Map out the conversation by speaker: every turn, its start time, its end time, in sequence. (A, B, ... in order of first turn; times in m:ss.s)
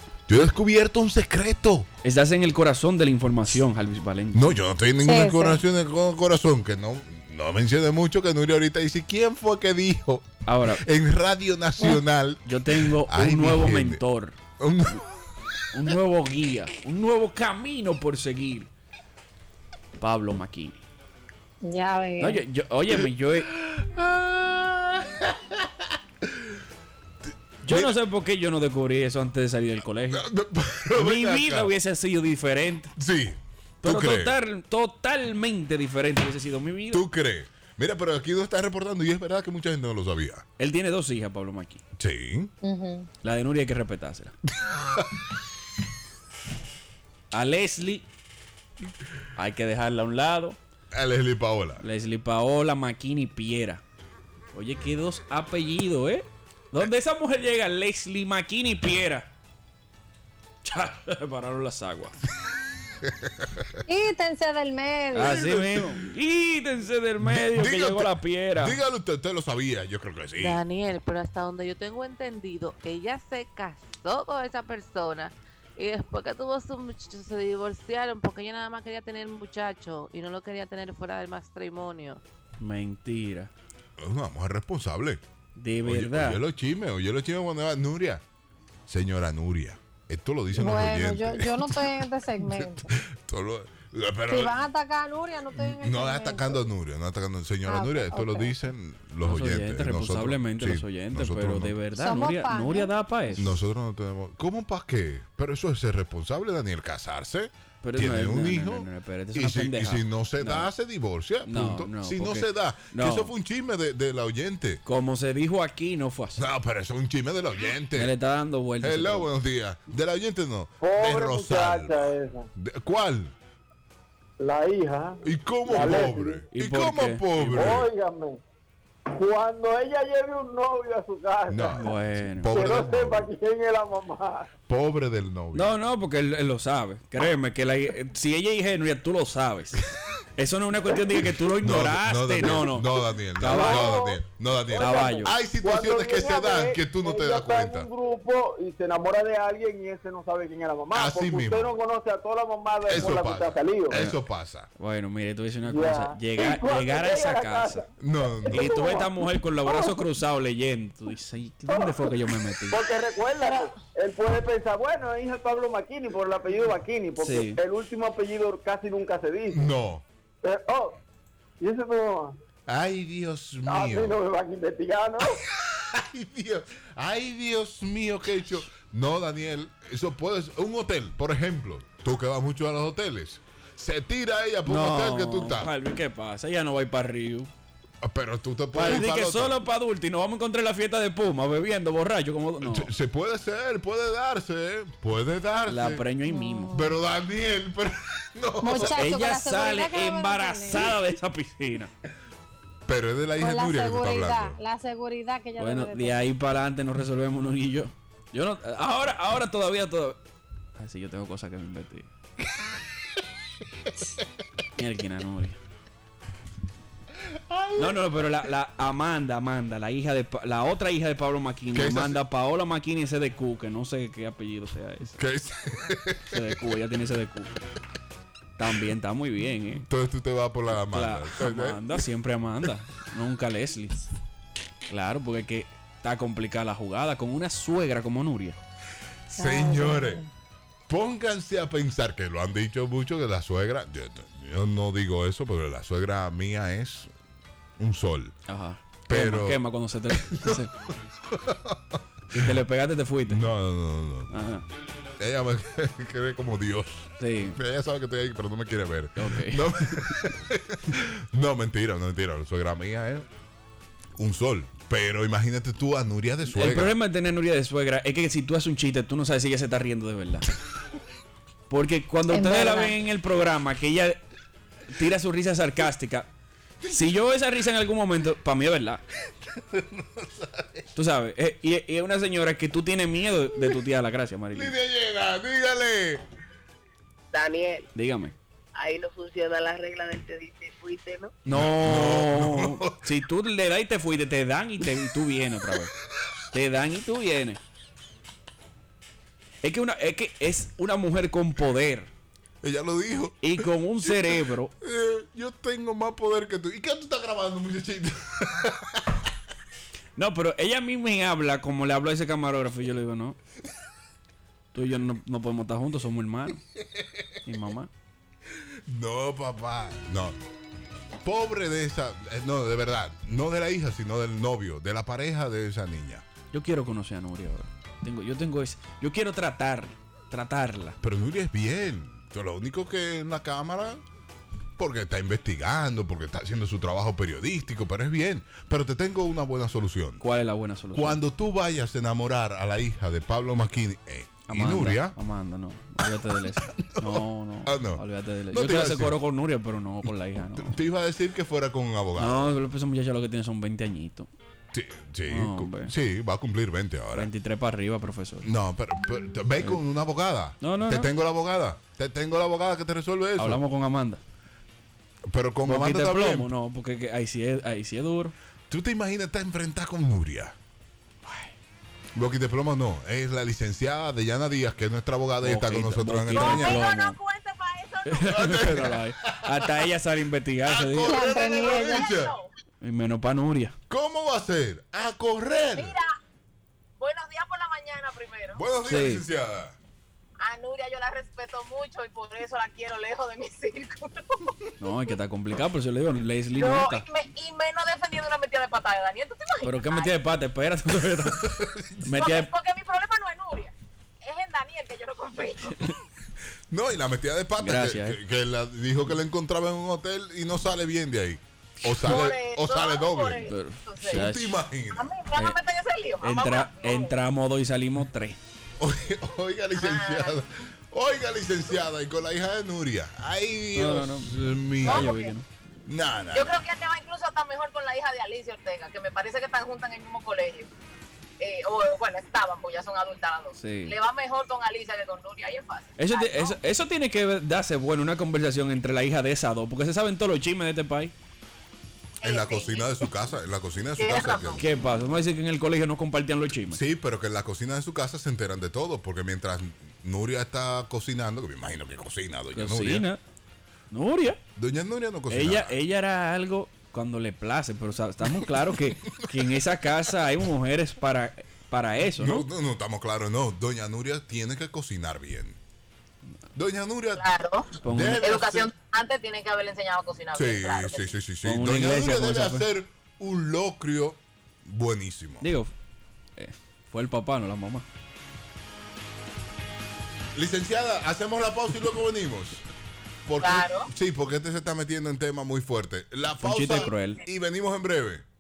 0:00.3-0:01.9 A
0:02.0-0:04.5 B
0:04.3-0:14.0 A
0:05.0-0:05.6 C
0:10.5-0:10.7 B
0:12.4-0:14.3 B
0:14.6-0:15.1 A
0:15.7-0:18.6 B
0:20.0-0:20.8 B
0:21.6-0:22.4 C
0:22.2-0:23.5 B
0:22.9-0:26.5 A
0:27.6-0:30.2 B
0:27.6-0:28.0 A
0:30.1-0:31.7 A
0:31.0-0:32.9 B
0:33.0-0:34.4 A
0:33.8-0:37.0 B
0:36.9-0:40.4 A
0:40.6-0:41.8 B
0:42.0-0:42.5 A
0:42.6-0:43.1 C
0:43.2-0:44.3 B
0:44.6-0:45.0 A
0:47.3-0:48.0 B
0:49.4-0:50.6 B
0:50.9-0:51.8 A
0:51.8-0:53.8 B
0:54.6-0:59.2 B
1:00.6-1:02.1 B
1:03.0-1:03.7 A
1:03.9-1:05.4 C
1:05.1-1:08.8 B
1:05.2-1:06.0 A
1:07.2-1:10.6 A
1:10.4-1:22.2 D
1:22.6-1:23.5 B
1:24.0-1:25.2 A
1:25.6-1:26.4 B
1:25.8-1:28.2 A
1:28.9-1:34.6 A
1:30.5-1:32.9 C
1:34.3-1:36.6 C
1:35.5-1:41.8 A
1:37.7-1:38.6 C
1:39.2-1:43.6 B
1:42.0-1:43.5 C
1:43.4-1:54.8 A
1:47.8-1:50.7 B
1:51.4-1:53.3 B
1:54.9-1:56.4 B
1:56.4-1:58.2 A
1:58.0-1:59.3 B
1:58.8-2:03.3 A
2:00.8-2:02.5 E
2:04.4-2:06.4 E
2:05.2-2:07.9 A
2:06.5-2:07.8 B
2:07.6-2:08.4 E
2:09.1-2:14.5 E
2:11.5-2:13.3 A
2:11.7-2:12.5 B
2:14.7-2:15.7 A
2:15.5-2:19.8 B
2:20.4-2:24.0 B
2:21.6-2:27.9 A
2:22.4-2:22.7 E
2:23.4-2:34.1 E
2:24.8-2:25.4 B
2:30.9-2:31.8 A
2:32.8-2:34.7 A
2:34.8-2:37.8 B
2:35.6-2:39.1 E
2:38.0-2:39.0 A
2:38.5-2:42.8 B
2:39.6-2:40.0 E
2:41.7-2:49.8 E
2:47.2-2:47.6 B
2:49.5-2:50.0 A
2:50.4-2:51.0 E
2:51.6-2:52.4 E
2:52.7-2:54.2 A
2:53.7-2:55.4 E
2:55.6-3:05.7 A
3:04.6-3:07.5 B
3:08.0-3:09.6 A
3:08.7-3:12.9 B
3:12.6-3:16.0 A
3:15.7-3:16.7 B
3:16.2-3:17.0 C
3:16.7-3:19.1 A
3:18.6-3:21.0 C
3:18.7-3:21.9 B
3:22.9-3:24.6 A
3:23.4-3:26.3 C
3:25.6-3:30.2 B
3:30.8-3:32.1 B
3:34.8-3:35.6 B
3:37.2-3:38.5 A
3:37.8-3:45.1 B
3:41.7-3:42.2 A
3:45.2-3:46.4 A
3:46.3-3:47.6 B
3:48.6-3:49.8 B
3:49.8-3:52.0 A
3:50.8-3:54.0 B
3:54.9-3:58.6 B
3:59.3-4:00.2 A
3:59.4-4:00.3 C
4:00.9-4:07.1 A
4:07.8-4:08.3 A
4:08.5-4:10.7 B
4:09.1-4:12.6 A
4:12.4-4:13.4 B
4:13.3-4:14.3 A
4:14.3-4:14.6 B
4:15.2-4:23.3 A
4:17.2-4:17.6 B
4:19.2-4:19.6 B
4:24.2-4:27.0 A
4:26.5-4:30.5 B
4:31.7-4:34.2 B
4:32.3-4:33.0 C
4:34.9-4:36.2 B
4:36.9-4:39.0 B
4:39.5-4:40.9 A
4:41.0-4:44.6 B
4:44.5-4:46.2 A
4:47.3-4:47.8 F
4:48.0-4:48.3 B
4:48.8-4:51.3 F
4:51.4-4:55.9 B
4:51.5-4:53.0 A
4:56.5-4:57.6 B
4:59.6-5:02.1 B
5:02.6-5:09.2 A
5:03.4-5:04.7 B
5:10.2-5:13.4 B
5:14.7-5:16.6 B
5:17.0-5:17.2 A
5:17.4-5:17.9 B
5:18.9-5:20.4 A
5:21.2-5:26.2 A
5:26.5-5:31.0 B
5:31.0-5:34.0 A
5:34.8-5:40.2 A
5:40.2-5:41.2 B
5:40.9-5:45.2 A
5:44.5-5:50.6 B
5:46.6-5:49.2 A
5:50.6-5:52.5 A
5:52.2-5:54.3 B
5:54.7-5:57.3 A
5:55.3-5:55.9 B
5:57.1-5:58.4 B
5:58.4-6:03.6 A
6:00.6-6:01.1 B
6:03.4-6:04.2 B
6:05.3-6:06.5 A
6:05.6-6:08.3 B
6:08.7-6:10.6 A
6:12.2-6:16.9 A
6:15.4-6:17.2 B
6:16.3-6:18.4 F
6:18.0-6:21.1 B
6:18.2-6:19.8 A
6:20.6-6:22.4 A
6:21.0-6:22.5 F
6:21.0-6:22.2 C
6:22.8-6:23.7 B
6:23.9-6:26.0 A
6:25.8-6:26.1 F
6:27.0-6:28.6 F
6:28.5-6:29.8 A
6:28.8-6:29.2 B
6:30.4-6:34.6 F
6:34.8-6:37.0 B
6:36.5-6:40.1 F
6:39.6-6:41.5 B
6:41.2-6:42.2 A
6:42.0-6:42.5 B
6:42.0-6:46.0 F
6:46.7-6:55.1 A
6:47.6-6:48.2 B
6:52.0-6:54.4 F
6:53.5-6:54.6 B
6:54.9-6:57.2 F
6:56.2-6:58.3 B
6:58.8-7:05.2 A
6:59.8-7:00.4 F
7:03.8-7:04.3 B
7:04.8-7:05.4 F
7:04.9-7:05.4 B
7:05.9-7:06.6 A
7:06.3-7:10.7 F
7:11.4-7:16.6 F
7:13.6-7:13.9 B
7:16.0-7:21.1 B
7:22.2-7:23.0 F
7:22.2-7:24.7 A
7:24.0-7:24.6 F
7:24.6-7:26.7 B
7:26.7-7:33.1 A
7:32.6-7:33.2 B
7:33.9-7:34.3 B
7:34.6-7:35.8 A
7:35.3-7:42.4 B
7:38.2-7:38.6 A
7:42.1-7:45.6 A
7:46.6-7:47.3 A
7:47.2-7:51.1 F
7:47.8-7:48.2 B
7:47.8-7:48.7 A
7:50.3-7:55.5 A
7:51.4-7:52.6 B
7:55.4-7:55.7 B
7:56.4-7:57.8 B
8:00.4-8:02.6 A
8:03.3-8:08.2 A
8:03.4-8:03.9 F
8:06.5-8:07.2 B